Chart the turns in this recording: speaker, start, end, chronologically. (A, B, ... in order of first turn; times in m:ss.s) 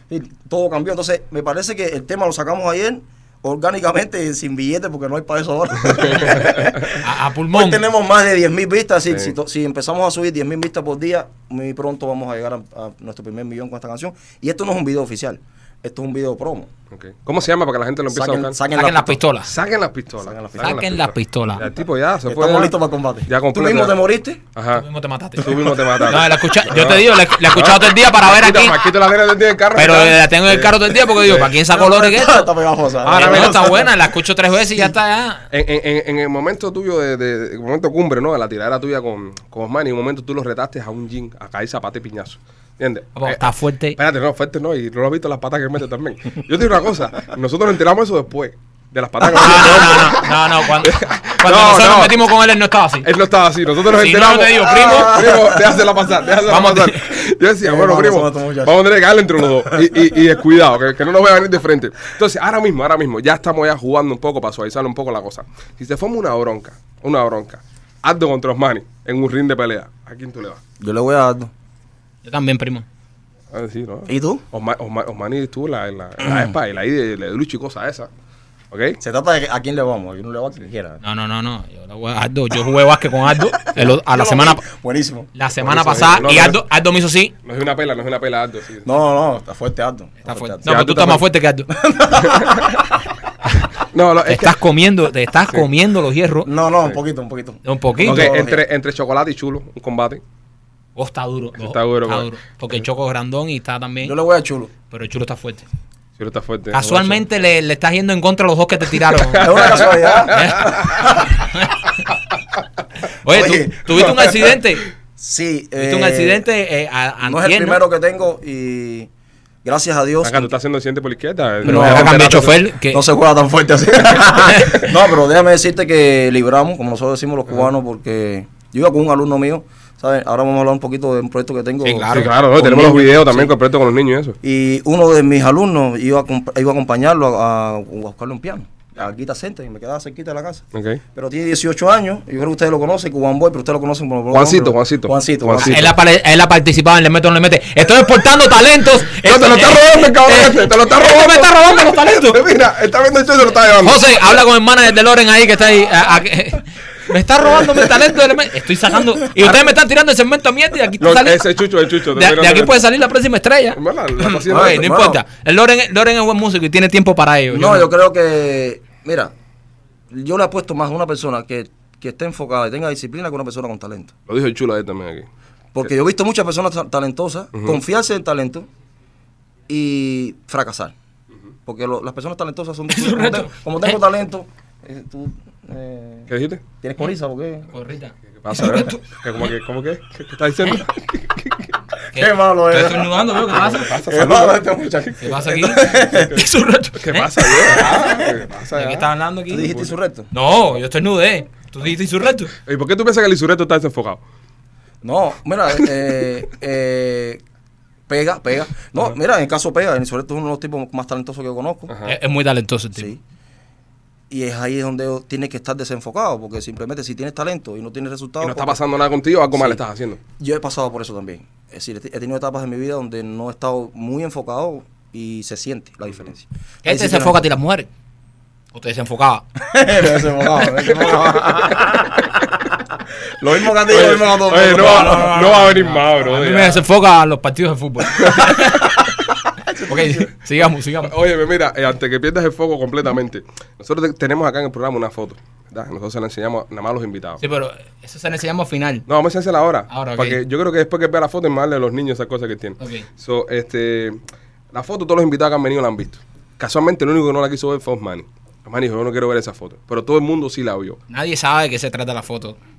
0:00.1-0:16.7 A
0:05.8-0:06.5 B
0:06.9-0:07.8 C
0:16.9-0:18.6 B
0:18.1-0:19.2 A
0:18.7-0:19.5 C
0:19.4-0:22.7 B
0:20.2-0:20.8 A
0:20.6-0:21.6 C
0:22.3-0:24.4 A
0:23.3-0:24.0 B
0:24.5-0:24.8 B
0:24.7-0:28.9 C
0:25.4-0:31.5 B
0:29.7-0:32.5 C
0:31.6-0:33.9 A
0:33.0-0:33.8 B
0:33.0-0:35.4 C
0:35.5-0:43.4 B
0:43.1-0:44.0 C
0:44.0-0:52.2 B
0:49.3-0:53.1 C
0:53.0-1:10.6 B
0:53.9-0:55.2 C
0:54.6-0:55.9 A
0:56.5-0:57.0 C
0:57.6-0:58.8 A
1:10.8-1:11.5 A
1:12.2-1:12.8 C
1:13.5-1:18.1 B
1:14.1-1:14.4 A
1:16.2-1:16.5 A
1:18.7-1:19.0 B
1:19.0-1:21.0 A
1:21.0-1:24.6 C
1:23.6-1:25.3 A
1:25.4-1:27.3 C
1:25.6-1:26.6 B
1:27.4-1:28.9 B
1:28.8-1:30.7 A
1:30.2-1:31.7 C
1:30.6-1:31.2 B
1:31.7-1:32.9 A
1:32.2-1:32.7 B
1:33.9-1:34.6 B
1:34.2-1:36.5 C
1:36.4-1:38.6 A
1:37.6-1:38.3 C
1:38.0-1:40.2 B
1:41.0-1:44.1 C
1:41.6-1:42.3 B
1:44.0-1:44.7 A
1:44.9-1:45.6 C
1:46.2-1:47.2 B
1:46.7-1:52.0 C
1:49.2-1:50.9 B
1:49.4-1:51.5 A
1:53.2-1:54.9 C
1:53.2-1:54.5 A
1:55.2-1:56.4 A
1:55.8-1:57.8 C
1:57.2-1:59.1 A
1:59.6-2:00.5 A
2:00.2-2:02.4 B
2:01.6-2:03.0 C
2:01.6-2:12.1 A
2:04.4-2:04.9 C
2:11.8-2:13.5 C
2:12.1-2:14.4 B
2:14.4-2:25.9 A
2:20.7-2:21.0 B
2:24.3-2:25.9 B
2:25.6-2:32.4 C
2:29.1-2:34.0 B
2:33.8-2:47.9 C
2:41.0-2:42.8 B
2:43.7-2:44.9 B
2:44.4-2:45.2 A
2:47.5-2:49.3 A
2:50.1-2:54.1 A
2:54.3-2:55.3 B
2:55.7-2:58.7 A
2:57.5-2:57.8 B
2:59.7-3:00.9 A
3:01.6-3:06.3 A
3:02.9-3:04.0 C
3:06.3-3:06.6 B
3:06.8-3:07.7 A
3:07.7-3:09.0 C
3:08.4-3:11.7 B
3:12.1-3:14.0 C
3:12.1-3:13.4 A
3:13.5-3:15.1 B
3:14.0-3:16.4 A
3:15.2-3:18.2 C
3:17.0-3:19.1 B
3:17.7-3:18.3 A
3:18.7-3:19.7 C
3:19.5-3:20.3 A
3:19.6-3:19.9 B
3:20.3-3:22.5 C
3:22.6-3:24.2 B
3:25.0-3:27.4 A
3:28.1-3:31.9 A
3:31.9-3:32.2 B
3:32.0-3:33.1 C
3:34.3-3:38.8 A
3:38.4-3:40.2 B
3:39.5-3:39.8 A
3:40.4-3:47.4 A
3:46.8-3:47.9 C
3:48.7-3:49.4 C
3:49.6-3:52.5 A
3:53.2-3:55.6 A
3:53.8-3:56.8 B
3:54.7-3:59.0 C
3:58.2-3:58.6 B
3:59.5-4:00.3 A
3:59.8-4:01.1 C
4:01.0-4:07.4 B
4:07.4-4:09.0 C
4:09.1-4:14.2 B
4:09.9-4:10.4 C
4:12.8-4:13.0 C
4:14.7-4:21.0 B
4:21.1-4:22.6 C